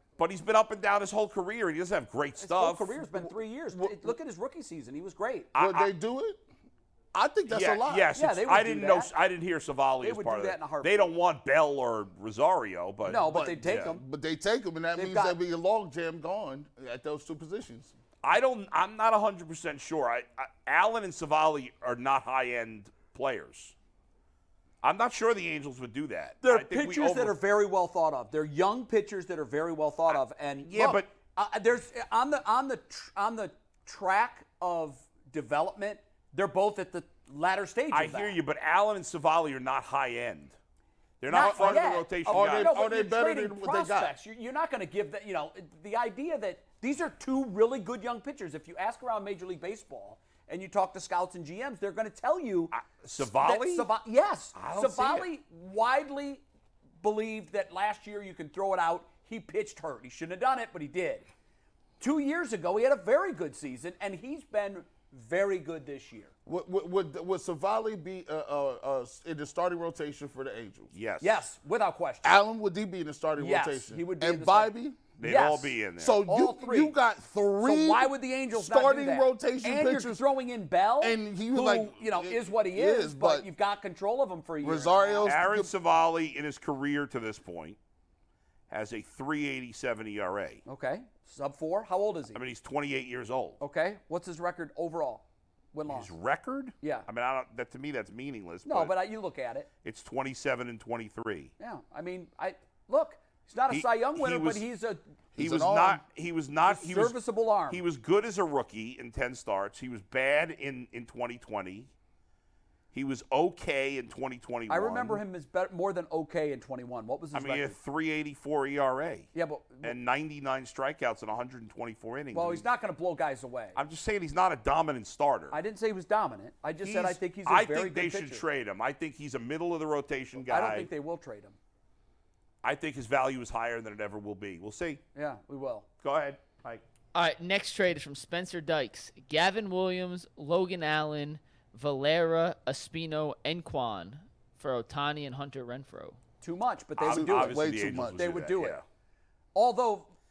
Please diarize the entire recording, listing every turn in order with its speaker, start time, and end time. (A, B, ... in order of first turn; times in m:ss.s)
0:00.2-0:02.9 A
0:02.4-0:05.5 B
0:03.7-0:04.1 C
0:05.5-0:05.9 A
0:05.6-0:06.4 C
0:07.1-0:08.1 C
0:07.5-0:13.9 A
0:08.1-0:09.1 B
0:10.0-0:11.1 B
0:13.0-0:14.0 B
0:13.3-0:17.9 C
0:15.0-0:15.4 B
0:18.2-0:23.7 A
0:24.8-0:27.4 A
0:26.4-0:38.4 B
0:30.7-0:31.1 A
0:37.9-0:40.6 A
0:41.2-0:42.7 A
0:41.3-0:56.4 B
0:41.3-0:44.1 C
0:52.7-0:53.9 A
0:54.6-0:55.3 A
0:57.0-1:01.2 B
1:02.0-1:06.3 B
1:06.5-1:10.9 C
1:10.9-1:11.4 A
1:11.2-1:12.4 B
1:12.2-1:15.2 C
1:13.4-1:17.0 B
1:15.2-1:16.2 A
1:16.0-1:20.2 C
1:17.6-1:25.4 B
1:21.0-1:23.5 C
1:24.6-1:25.7 C
1:25.2-1:27.8 A
1:28.7-1:30.6 A
1:30.7-1:32.4 B
1:32.3-1:33.6 A
1:33.6-1:36.1 B
1:35.9-1:38.9 A
1:36.8-1:37.1 B
1:38.7-1:39.7 B
1:39.8-1:41.5 A
1:41.6-1:45.0 B
1:43.7-1:44.6 A
1:45.4-1:46.0 C
1:45.4-1:47.2 A
1:46.7-1:47.8 B
1:47.7-1:51.9 A
1:52.9-1:55.2 A
1:54.7-1:57.8 B
1:57.3-1:59.3 A
1:59.3-2:00.0 B
1:59.8-2:02.6 A
2:02.3-2:03.8 B
2:03.8-2:05.6 A
2:05.5-2:08.4 B
2:06.8-2:10.9 A
2:10.4-2:11.6 B
2:12.6-2:15.0 A
2:15.2-2:15.9 B
2:16.0-2:16.8 A
2:17.1-2:26.2 D
2:26.4-2:28.8 B
2:27.0-2:28.8 A
2:27.1-2:28.2 C
2:29.6-2:30.1 B